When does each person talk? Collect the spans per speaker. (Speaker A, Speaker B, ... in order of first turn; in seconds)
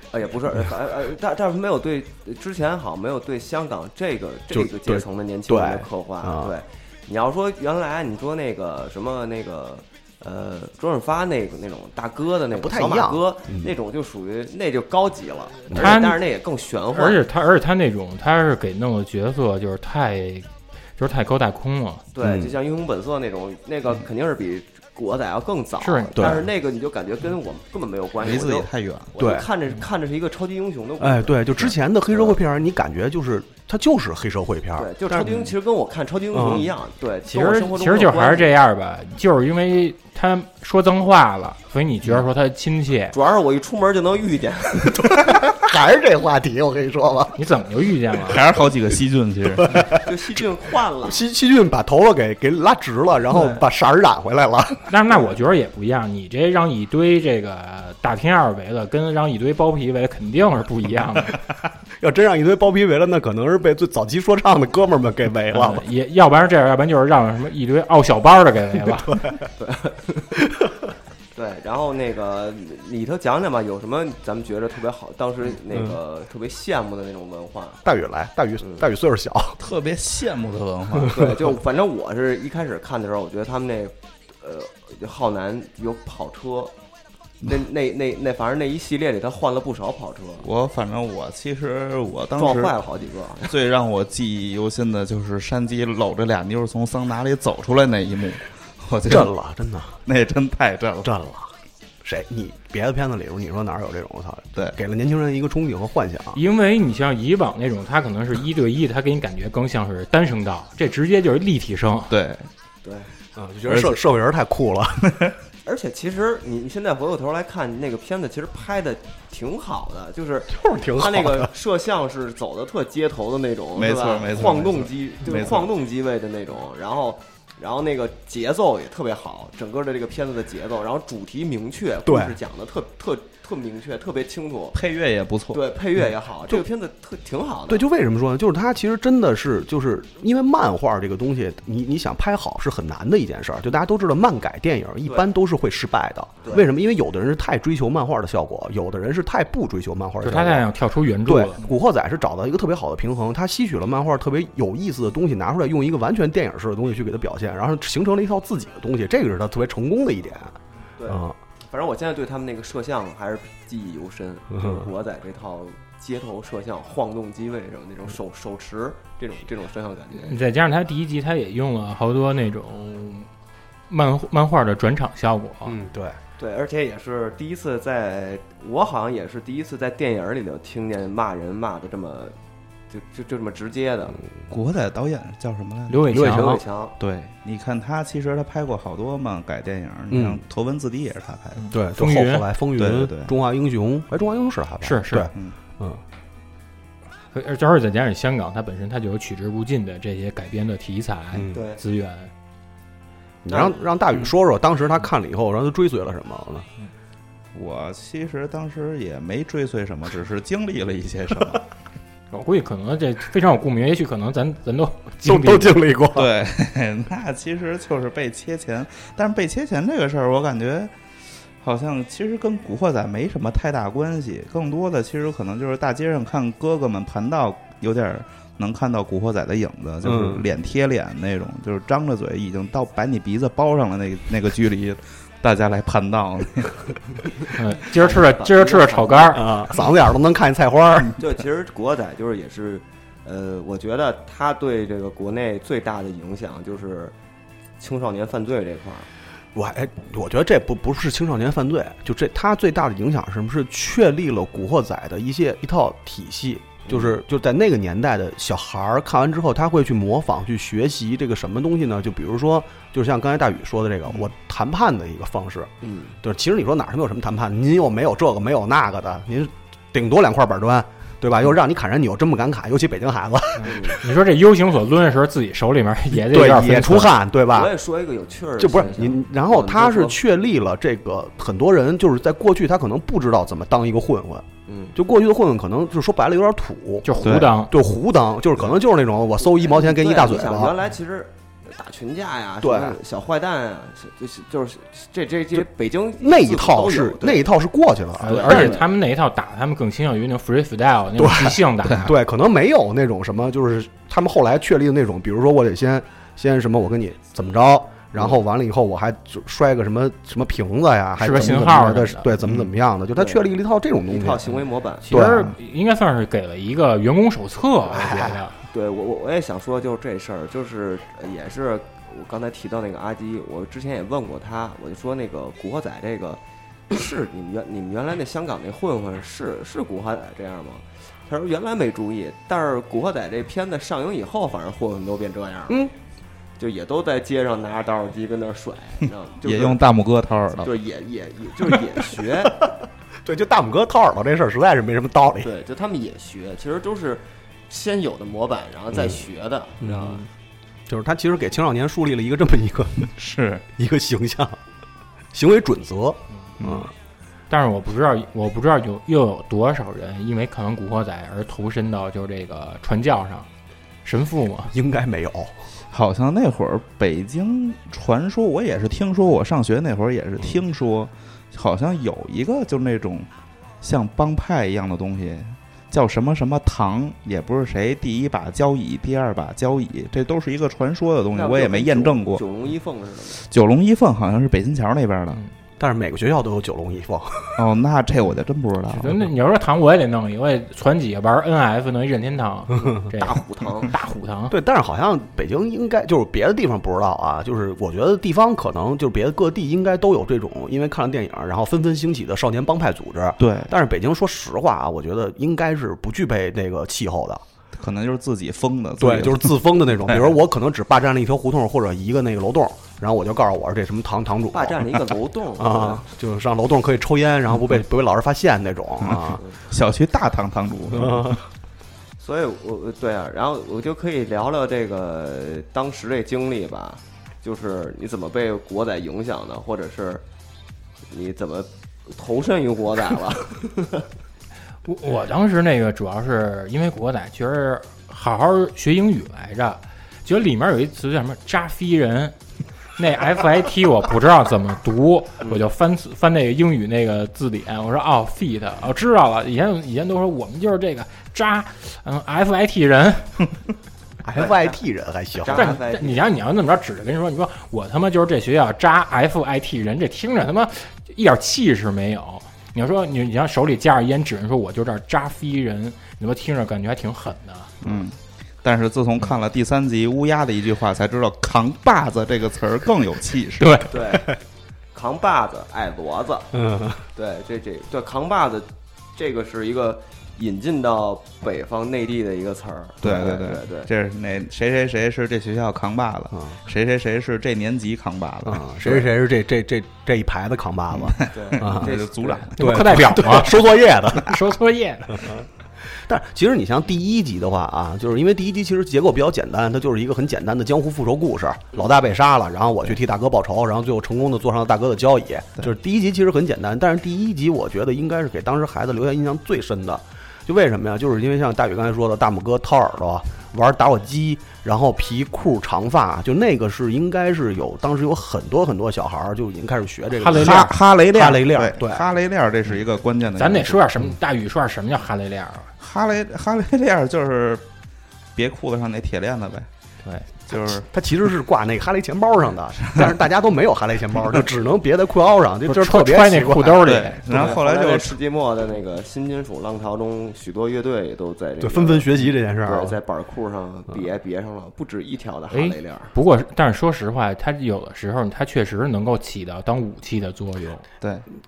Speaker A: 0.1-17.2, 22.1-32.4, 34.8-38.5, 43.1-45.1, 49.9-51.2, 69.6-70.4, 71.3-77.8, 81.1-86.7, 87.4-90.5, 92.3-93.5, 112.8-113.1, 115.6-134.8, 135.5-137.8, 146.4-146.7, 161.0-170.4, 176.4-182.3, 182.9-184.2, 186.2-186.9, 201.5-201.8, 203.5-203.8, 237.9-239.5, 241.2-247.1, 247.8-249.1, 256.9-257.1, 265.8-266.1, 273.7-274.0, 277.5-280.2, 284.7-284.9, 289.4-297.5, 298.2-298.9, 313.1-313.5, 314.1-315.1, 318.7-335.9, 336.6-339.8, 340.6-342.6, 345.4-350.2, 381.3-383.4, 393.1-393.9, 414.5-416.0, 422.2-430.2, 431.1-434.1, 454.3-454.8, 455.3-456.3, 473.9-474.4, 474.9-476.5, 477.1-483.9, 491.3-492.5, 537.3-546.1
Speaker B: 4.5-6.5, 12.5-13.7, 15.7-15.9, 22.2-22.5, 26.1-26.4, 29.2-29.5, 31.0-35.4, 36.3-36.7, 44.9-47.4, 49.6-50.0, 51.0-54.9, 62.0-65.8, 77.8-79.6, 81.0-81.3, 99.1-100.0, 101.0-101.5, 102.0-106.4, 113.3-115.2, 120.5-121.5, 132.0-132.4, 137.7-150.7, 151.2-161.4, 164.5-164.9, 175.7-176.2, 186.1-186.6, 190.1-190.4, 191.7-196.0, 201.3-201.6, 203.4-206.7, 215.2-216.3, 230.0-230.4, 239.3-241.2, 249.5-265.7, 266.2-274.0, 276.1-277.7, 278.6-290.7, 292.6-293.0, 296.2-298.8, 301.2-314.6, 315.1-315.5, 317.9-318.4, 343.2-345.5, 349.8-350.3, 350.9-353.1, 353.8-354.6, 355.3-356.9, 364.7-365.5, 385.8-387.6, 394.5-407.4, 409.0-419.4, 420.9-421.4, 454.2-455.8, 476.5-477.0, 486.3-486.6, 488.4-491.9, 492.6-494.5, 495.1-522.1, 530.5-537.5, 541.6-543.0
Speaker C: 15.7-16.2, 16.9-22.0, 25.8-26.4, 37.3-43.1, 47.4-48.4, 54.9-61.4, 65.5-69.2, 106.3-112.1, 150.2-151.6, 170.2-173.3, 173.9-175.8, 185.9-186.6, 191.6-192.5, 194.8-195.3, 197.3-202.3, 212.3-215.8, 237.5-239.4, 273.6-277.2, 287.0-287.7, 298.2-302.1, 311.2-312.3, 315.0-318.6, 357.5-363.5, 364.0-364.7, 388.9-394.5, 434.8-442.3, 443.0-453.4, 455.5-467.7, 473.6-473.9, 492.6-495.4, 520.2-520.8, 523.4-525.7, 535.7-537.2, 545.5-550.8
Speaker D: 28.2-29.1, 35.2-35.5, 48.2-49.8, 79.6-81.2, 90.4-92.7, 93.4-99.3, 100.0-101.1, 112.1-112.5, 113.7-114.0, 115.1-115.3, 123.8-125.7, 134.7-135.6, 184.5-186.1, 187.0-191.7, 192.8-193.3, 207.5-211.6, 216.1-220.9, 221.6-236.9, 287.2-287.5, 312.4-312.7, 339.4-340.7, 353.1-353.6, 356.6-356.9, 365.9-373.3, 373.8-382.4, 383.4-385.4, 387.6-389.2, 403.4-403.7, 407.7-410.3, 419.0-421.3, 467.8-473.9, 483.0-489.1, 490.9-492.8, 520.3-523.8, 525.8-527.6, 528.3-529.7, 530.5-530.9, 536.8-538.2